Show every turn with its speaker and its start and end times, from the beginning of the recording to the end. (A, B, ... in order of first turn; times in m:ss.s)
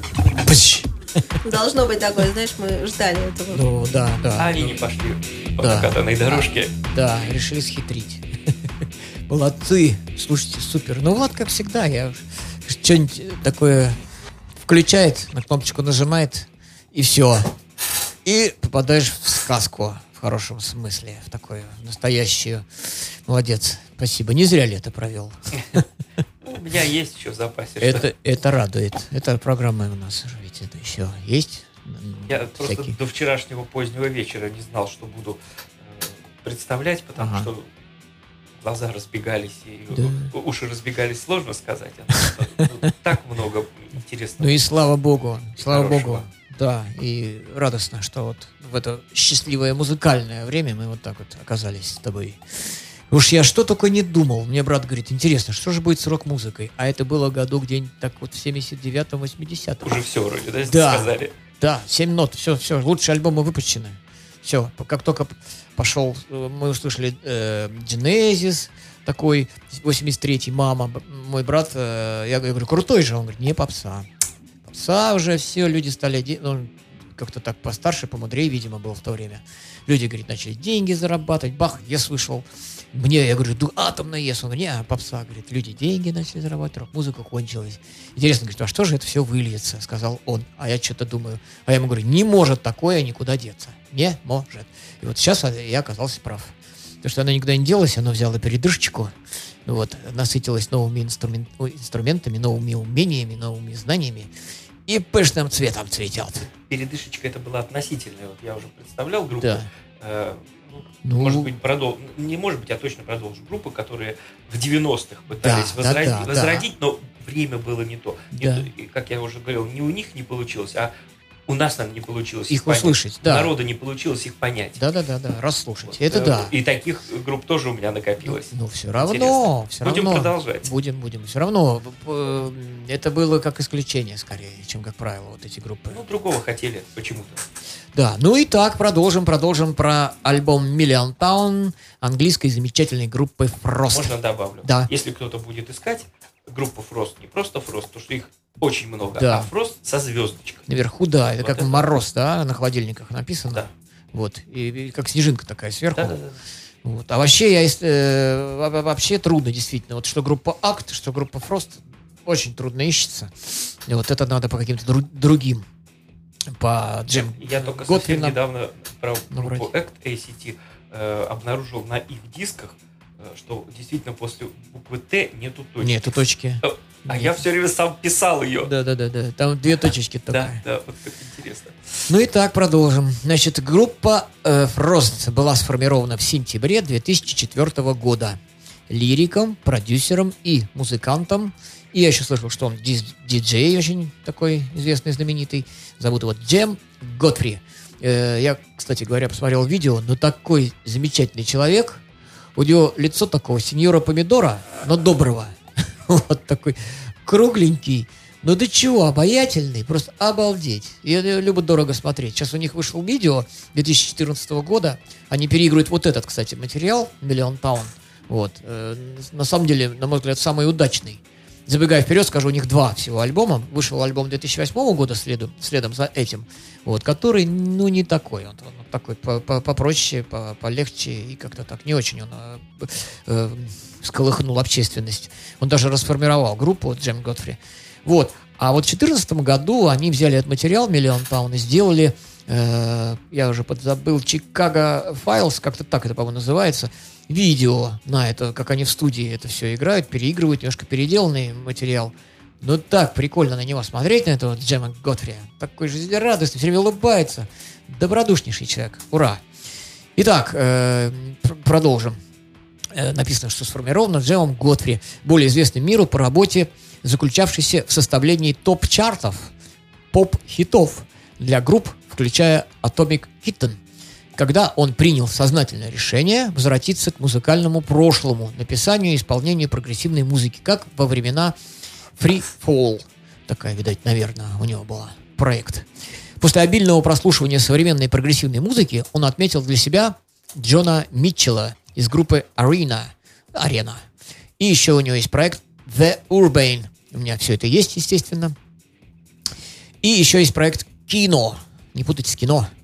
0:00.4-0:01.3 A
0:01.4-0:03.6 B
0:03.5-0:04.7 A
0:04.4-0:06.7 C
0:05.6-0:08.2 A
0:09.3-0:14.0 A
0:14.6-0:17.5 A
0:18.2-0:25.8 A
0:26.4-0:28.1 C
0:27.8-0:33.0 A
0:32.3-0:37.6 C
0:37.2-0:37.5 A
0:38.6-0:44.6 C
0:39.9-0:40.3 A
0:44.4-0:52.4 A
0:45.6-0:46.3 C
0:53.1-1:00.0 A
0:59.8-1:01.3 C
1:00.6-1:14.1 A
1:14.6-1:39.1 A
1:39.7-1:44.3 A
1:44.9-1:46.5 A
1:46.7-2:00.9 C
1:49.4-1:49.7 A
1:51.0-1:51.5 A
1:55.4-1:56.7 A
1:58.4-1:58.7 A
2:01.5-2:04.8 C
2:02.5-2:03.5 A
2:04.8-2:06.5 A
2:05.9-2:10.7 C
2:08.2-2:16.0 A
2:15.9-2:17.4 C
2:17.9-2:24.9 A
2:23.9-2:30.6 C
2:29.2-2:29.5 A
2:30.7-2:36.2 A
2:31.3-2:32.0 C
2:36.0-2:36.4 C
2:36.8-2:45.7 A
2:46.5-2:48.4 A
2:47.4-2:56.1 C
2:49.3-2:49.7 A
2:55.8-2:57.4 A
2:56.6-2:58.7 C
2:58.6-3:00.6 A
3:00.3-3:01.8 C
3:02.1-3:08.4 A
3:08.9-3:22.0 A
3:22.6-4:19.4 A
4:20.2-4:22.2 A
4:22.9-4:29.5 A
4:30.1-4:33.8 A
4:34.4-4:41.6 A
4:42.2-4:45.9 A
4:46.4-4:54.0 A
4:54.6-4:58.6 A
5:00.0-5:02.7 A